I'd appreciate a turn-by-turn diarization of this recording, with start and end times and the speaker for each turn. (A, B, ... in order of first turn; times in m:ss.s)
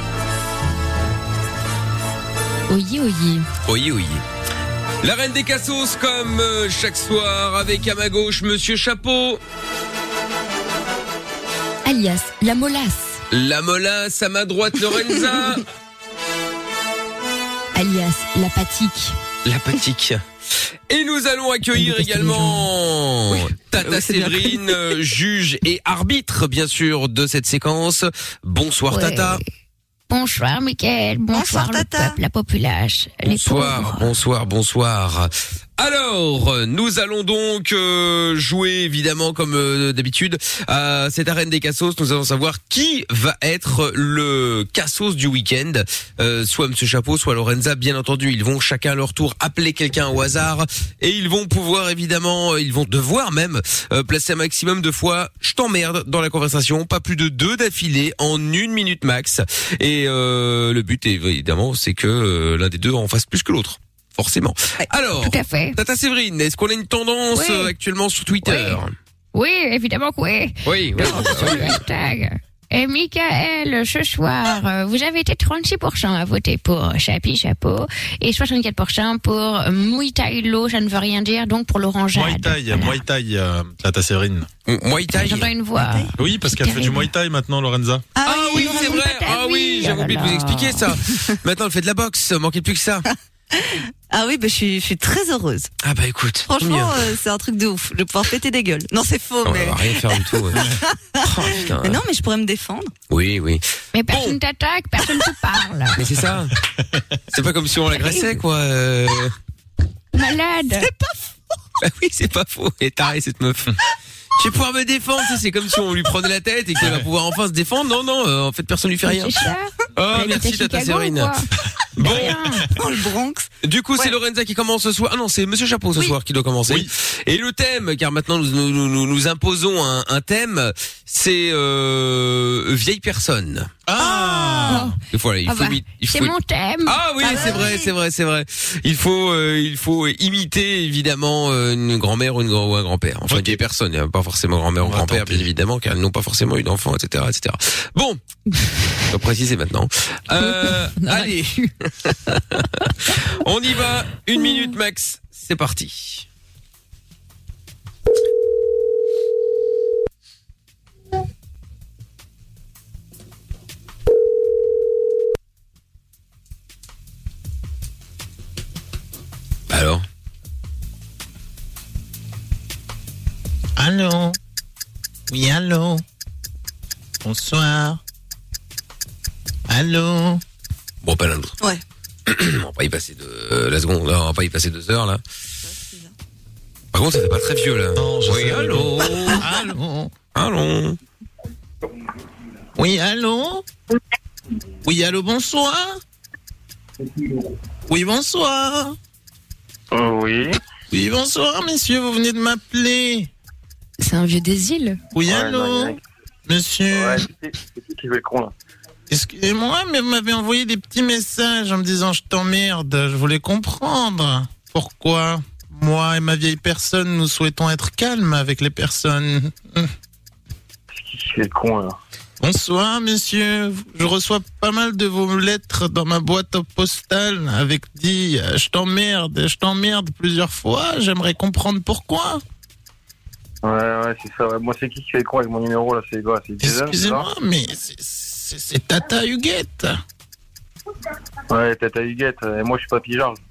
0:02.7-0:03.5 A
0:03.6-0:04.2 B
0:05.0-0:09.4 B
0:11.8-0:13.2 A
0:13.3-0:15.6 B
0:17.7-0:19.2 A
0:19.4-0:20.2 B
0:20.9-0:29.4 B
0:21.8-0:22.7 A
0:23.7-0:24.9 C
0:28.9-0:29.4 A
0:30.1-0:34.1 A
0:31.3-0:32.2 C
0:33.2-1:08.9 B
1:05.2-1:05.8 A
1:07.3-1:07.7 A
1:08.4-1:08.8 A
1:09.3-1:23.0 A
1:10.6-1:11.8 B
1:11.1-1:11.5 C
1:22.1-1:24.5 D
1:24.6-1:25.5 B
1:25.2-1:27.1 A
1:25.8-1:26.1 C
1:26.2-1:28.1 D
1:28.2-1:29.0 C
1:28.2-1:33.0 B
1:28.5-1:30.8 A
1:33.5-1:35.7 C
1:35.8-1:37.1 B
1:36.5-1:42.9 C
1:39.4-1:40.7 B
1:41.2-1:42.0 B
1:43.1-1:44.4 B
1:43.9-1:46.0 A
1:46.0-1:46.5 B
1:47.3-1:49.3 B
1:48.0-1:48.2 A
1:50.1-1:50.9 A
1:50.8-1:51.1 C
1:51.8-1:53.7 B
1:54.4-1:59.4 B
1:59.0-2:01.4 A
2:00.0-2:01.4 B
2:02.0-2:02.4 B
2:02.0-2:02.7 A
2:02.7-2:04.1 C
2:03.6-2:13.7 B
2:13.8-2:14.9 D
2:14.0-2:14.8 C
2:14.7-2:17.3 A
2:15.1-2:28.2 B
2:17.2-2:17.9 C
2:23.3-2:23.6 D
2:24.8-2:25.4 D
2:29.1-2:36.2 B
2:30.4-2:31.7 A
2:49.7-2:50.0 B
2:53.8-2:54.4 E
2:55.3-2:56.0 E
2:57.2-2:58.0 E
2:59.7-3:00.4 E
3:01.0-3:01.6 B
3:02.3-3:05.2 B
3:05.6-3:06.1 C
3:06.9-3:09.4 B
3:08.0-3:09.4 D
3:09.4-3:10.1 E
3:10.3-3:11.0 B
3:12.8-3:13.6 E
3:14.8-3:16.0 E
3:17.9-3:19.0 E
3:19.9-3:20.6 F
3:20.9-3:23.3 E
3:24.0-3:25.0 A
3:25.1-3:27.2 E
3:25.2-3:26.0 F
3:26.9-3:28.5 F
3:29.1-3:39.9 E
3:40.9-3:42.0 F
3:42.4-3:52.4 E
3:53.6-3:57.3 F
3:56.6-4:00.0 E
4:01.5-4:03.4 F